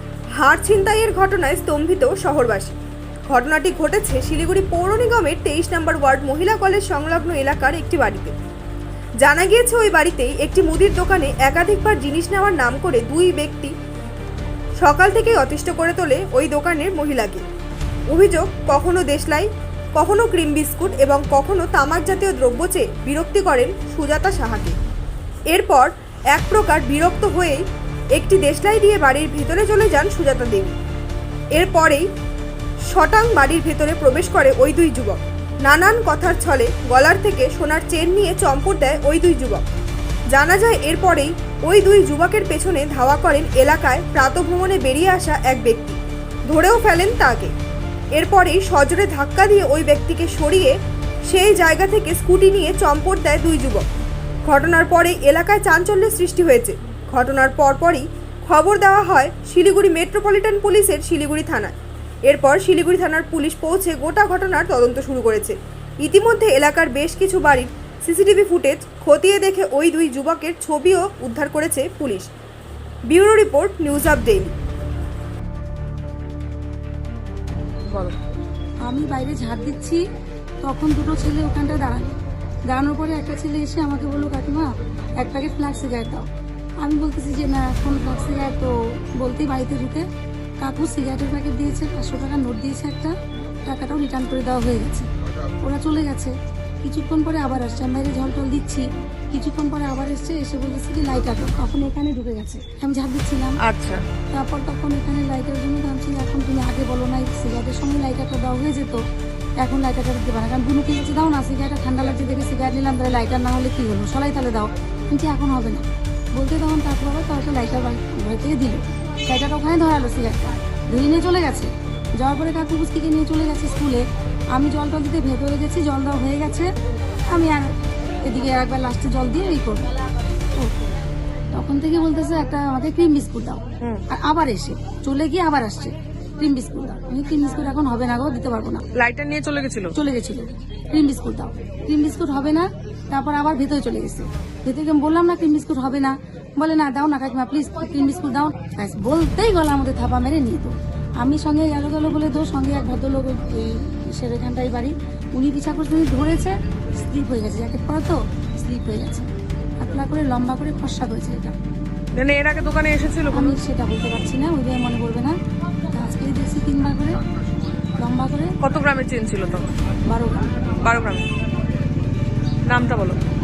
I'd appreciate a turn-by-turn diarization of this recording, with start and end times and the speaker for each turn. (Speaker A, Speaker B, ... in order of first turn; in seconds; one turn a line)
Speaker A: 0.4-2.8
Speaker A: 3.3-8.3
Speaker A: 9.2-13.7
Speaker A: 14.8-17.4
Speaker A: 18.1-24.8
Speaker A: 25.5-27.6
Speaker A: 28.1-30.7
Speaker A: 31.5-32.0
Speaker A: 32.9-39.6
Speaker A: 40.3-46.0
Speaker A: 46.5-47.5
Speaker A: 48.1-50.8
Speaker A: 51.3-53.8
Speaker A: 54.5-61.7
Speaker A: 62.2-72.3
Speaker A: 73.1-74.5
Speaker B: 77.9-78.2
Speaker C: 78.9-80.0
Speaker C: 80.6-82.1
Speaker C: 82.7-86.3
Speaker C: 86.8-90.1
Speaker C: 90.6-95.1
Speaker C: 95.6-103.6
Speaker B: 103.6-104.1
Speaker C: 104.3-109.0
Speaker C: 109.6-126.7
Speaker C: 127.3-129.9
Speaker C: 131.5-138.8
Speaker B: 138.9-139.9
Speaker C: 139.9-159.3
Speaker C: 159.8-161.6
Speaker B: 162.1-163.6
Speaker C: 163.3-165.4
Speaker C: 165.9-167.2
Speaker C: 168.0-168.5
Speaker B: 168.6-169.8
Speaker C: 170.1-170.5
Speaker B: 170.8-171.3
Speaker B: 172.7-173.2